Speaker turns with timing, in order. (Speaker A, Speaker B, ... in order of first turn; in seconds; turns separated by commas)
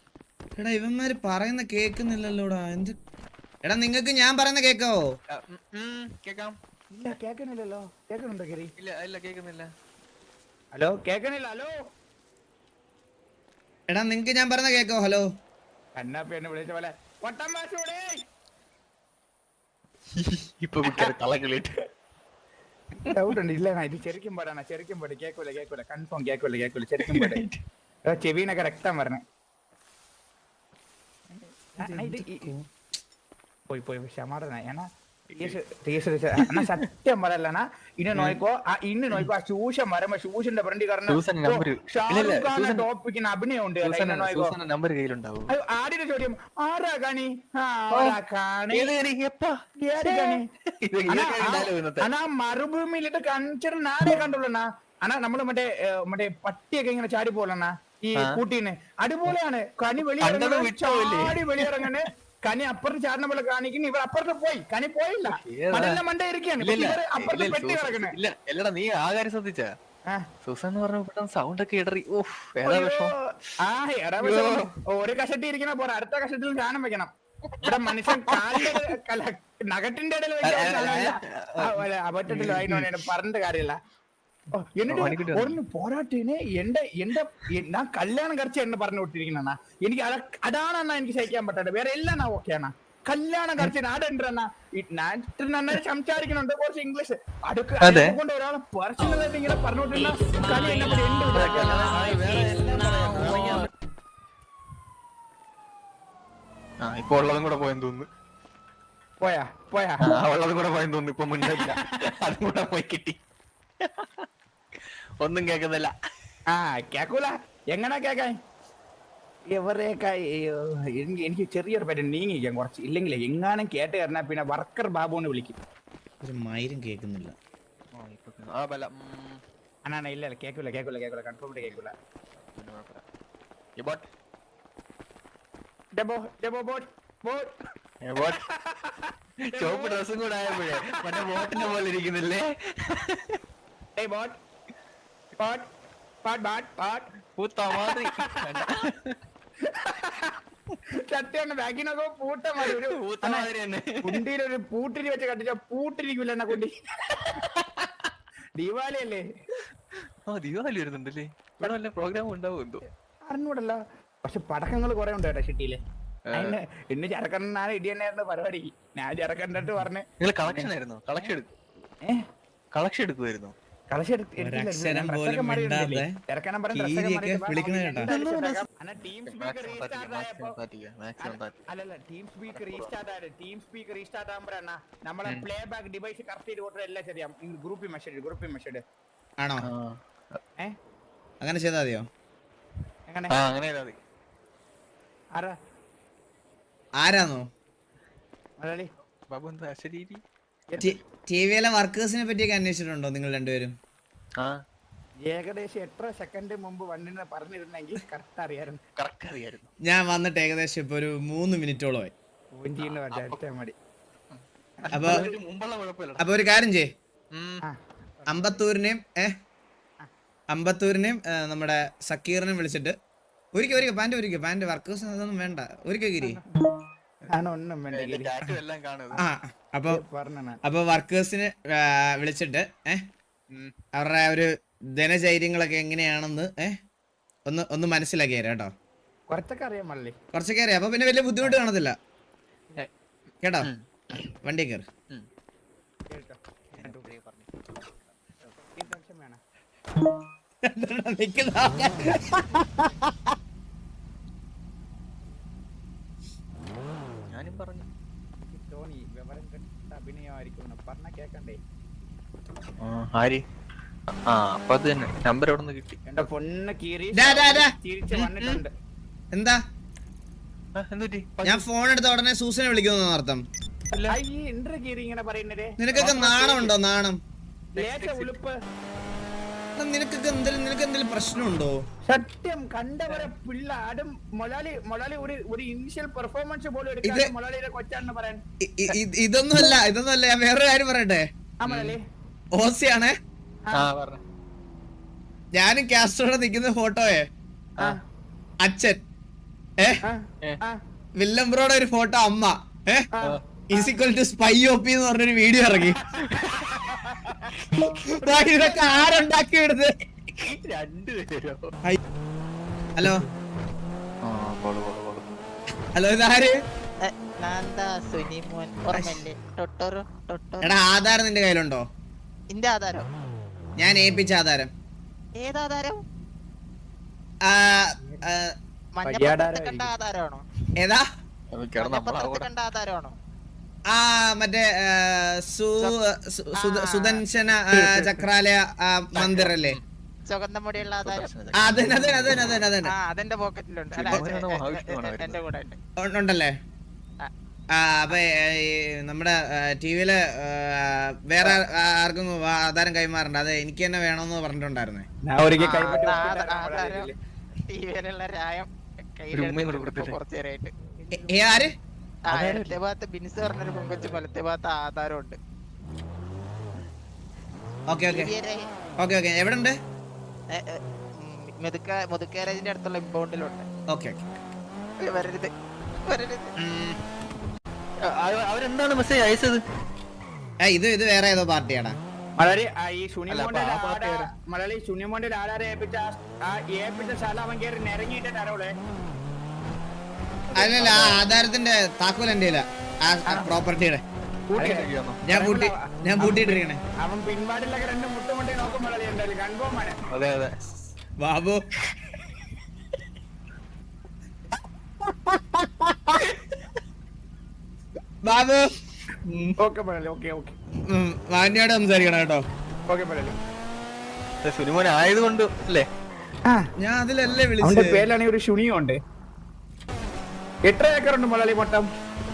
Speaker A: 0.6-3.0, Speaker A: 3.6-5.0, Speaker B: 5.3-6.6, Speaker C: 6.9-8.7, Speaker B: 8.8-9.7, Speaker C: 10.7-11.7, Speaker A: 13.9-15.2, Speaker C: 15.9-18.1, Speaker B: 20.2-21.7, Speaker C: 23.0-27.4, Speaker B: 27.1-27.6, Speaker C: 28.1-29.2, Speaker C: 31.8-32.5, Speaker A: 31.8-32.6, Speaker C: 33.7-44.6, Speaker B: 36.4-36.7, Speaker B: 38.1-38.4, Speaker B: 41.1-42.9, Speaker B: 43.8-45.5, Speaker C: 45.5-48.9, Speaker B: 47.9-48.2, Speaker B: 48.7-52.1, Speaker C: 49.8-50.4, Speaker C: 51.1-68.2, Speaker B: 60.2-62.0, Speaker B: 65.5-66.0, Speaker B: 66.6-69.7, Speaker B: 70.5-73.1, Speaker C: 72.6-77.1, Speaker B: 74.2-74.6, Speaker B: 77.5-78.8, Speaker C: 77.6-83.8, Speaker B: 80.4-83.0, Speaker C: 84.5-102.0, Speaker B: 84.9-85.6, Speaker B: 97.8-98.2, Speaker B: 101.3-103.7, Speaker B: 106.8-108.1, Speaker C: 109.2-110.0, Speaker B: 110.0-113.2, Speaker C: 111.4-112.1, Speaker B: 113.9-114.3, Speaker B: 115.2-115.9, Speaker C: 116.5-118.3, Speaker C: 119.5-125.6, Speaker A: 126.2-127.3, Speaker B: 128.0-129.4, Speaker C: 129.8-131.9, Speaker B: 132.5-133.0, Speaker B: 133.8-134.1, Speaker C: 135.9-137.5, Speaker B: 138.0-138.4, Speaker C: 138.3-140.0, Speaker B: 139.5-143.4, Speaker C: 140.7-141.7, Speaker C: 144.0-144.4, Speaker C: 145.4-145.7, Speaker C: 146.2-147.1, Speaker B: 147.4-149.2, Speaker C: 147.8-148.7, Speaker C: 149.6-150.4, Speaker C: 150.9-153.5, Speaker B: 152.6-154.2, Speaker C: 154.0-157.4, Speaker C: 158.6-159.2, Speaker B: 160.3-162.8, Speaker C: 163.3-165.8, Speaker C: 166.3-171.3, Speaker B: 170.2-171.5, Speaker B: 172.7-173.5, Speaker C: 173.9-180.6, Speaker A: 174.4-176.2, Speaker A: 176.7-178.1, Speaker B: 178.0-178.7, Speaker B: 179.2-181.6, Speaker C: 181.2-188.8, Speaker B: 182.5-182.9, Speaker A: 189.4-189.7, Speaker B: 189.7-190.4, Speaker A: 191.4-192.1, Speaker C: 193.1-193.3, Speaker B: 193.3-194.0, Speaker A: 197.0-197.4, Speaker C: 198.6-198.9, Speaker B: 199.3-200.2, Speaker C: 200.7-201.0, Speaker A: 200.8-203.8, Speaker C: 205.3-208.8, Speaker B: 209.0-209.7, Speaker A: 209.8-212.1, Speaker C: 212.6-213.8, Speaker B: 212.8-213.4, Speaker B: 214.8-216.2, Speaker C: 214.8-215.2, Speaker A: 214.9-215.3, Speaker A: 216.2-216.9, Speaker B: 217.3-217.6, Speaker A: 218.3-219.3, Speaker A: 220.5-222.9, Speaker A: 223.5-226.4, Speaker C: 227.3-228.3, Speaker B: 227.9-229.2, Speaker A: 229.2-230.0, Speaker C: 229.9-230.6, Speaker A: 230.7-233.0, Speaker A: 233.9-236.8, Speaker A: 237.5-238.7, Speaker C: 239.3-240.2, Speaker A: 240.3-241.9, Speaker A: 243.4-243.7, Speaker A: 244.4-244.9, Speaker C: 246.1-247.1, Speaker B: 246.8-247.5, Speaker C: 248.4-249.4, Speaker A: 250.6-253.3, Speaker B: 257.3-257.9, Speaker C: 258.5-261.6, Speaker B: 262.8-263.4, Speaker B: 264.3-266.0, Speaker C: 266.1-268.7, Speaker A: 267.1-267.7, Speaker B: 268.1-268.6, Speaker A: 269.3-269.6, Speaker B: 270.8-271.7, Speaker A: 271.4-273.4, Speaker C: 274.1-276.7, Speaker A: 275.8-277.2, Speaker B: 277.8-278.3, Speaker C: 277.8-278.6, Speaker A: 279.8-281.8, Speaker C: 282.1-288.4, Speaker A: 287.0-287.3, Speaker A: 288.6-291.3, Speaker C: 291.6-292.0, Speaker B: 291.6-292.0, Speaker A: 292.5-293.1, Speaker B: 293.7-294.2, Speaker A: 295.5-297.3, Speaker A: 298.6-299.0, Speaker C: 300.0-300.8, Speaker A: 301.2-303.1, Speaker C: 303.1-303.9, Speaker A: 303.7-306.0, Speaker B: 306.2-306.9, Speaker C: 306.3-307.5, Speaker A: 308.0-309.9, Speaker C: 308.5-309.0, Speaker B: 310.4-311.7, Speaker A: 313.0-313.2, Speaker B: 314.2-315.4, Speaker A: 315.9-316.6, Speaker D: 317.0-320.8, Speaker A: 318.9-319.2, Speaker A: 320.6-321.8, Speaker D: 322.5-323.1, Speaker A: 323.8-324.7, Speaker D: 325.4-326.0, Speaker A: 327.4-328.5, Speaker D: 328.9-330.4, Speaker C: 329.0-329.9, Speaker A: 330.8-331.1, Speaker B: 331.5-332.5, Speaker D: 331.8-333.1, Speaker A: 333.9-339.8, Speaker D: 336.6-337.2, Speaker B: 337.7-338.3, Speaker B: 339.1-339.8, Speaker D: 340.3-341.3, Speaker B: 340.7-342.4, Speaker A: 341.6-342.9, Speaker D: 342.9-345.8, Speaker B: 343.9-345.4, Speaker A: 346.0-346.5, Speaker A: 347.7-355.1, Speaker C: 355.2-357.2, Speaker D: 355.6-357.1, Speaker D: 357.7-360.7, Speaker B: 359.3-360.2, Speaker C: 361.1-361.4, Speaker A: 361.1-361.7, Speaker B: 362.3-362.8, Speaker D: 362.3-365.4, Speaker A: 367.9-368.3, Speaker D: 368.1-368.7, Speaker A: 369.0-369.8, Speaker D: 370.5-373.7, Speaker A: 373.9-374.3, Speaker D: 375.0-375.5, Speaker D: 376.1-376.5, Speaker B: 376.6-377.0, Speaker B: 378.1-379.6, Speaker A: 380.6-382.0, Speaker C: 382.4-388.7, Speaker B: 383.3-384.3, Speaker A: 390.6-394.0, Speaker C: 390.6-391.0, Speaker C: 394.5-400.0, Speaker B: 394.6-395.2, Speaker A: 395.2-396.8, Speaker B: 400.1-400.5, Speaker A: 401.2-401.6, Speaker A: 405.1-406.2, Speaker A: 408.2-408.7, Speaker B: 409.3-409.6, Speaker C: 409.6-410.6, Speaker A: 410.9-412.4, Speaker C: 412.9-413.4, Speaker B: 414.4-415.9, Speaker A: 416.8-418.1, Speaker C: 417.6-419.0, Speaker C: 420.6-421.9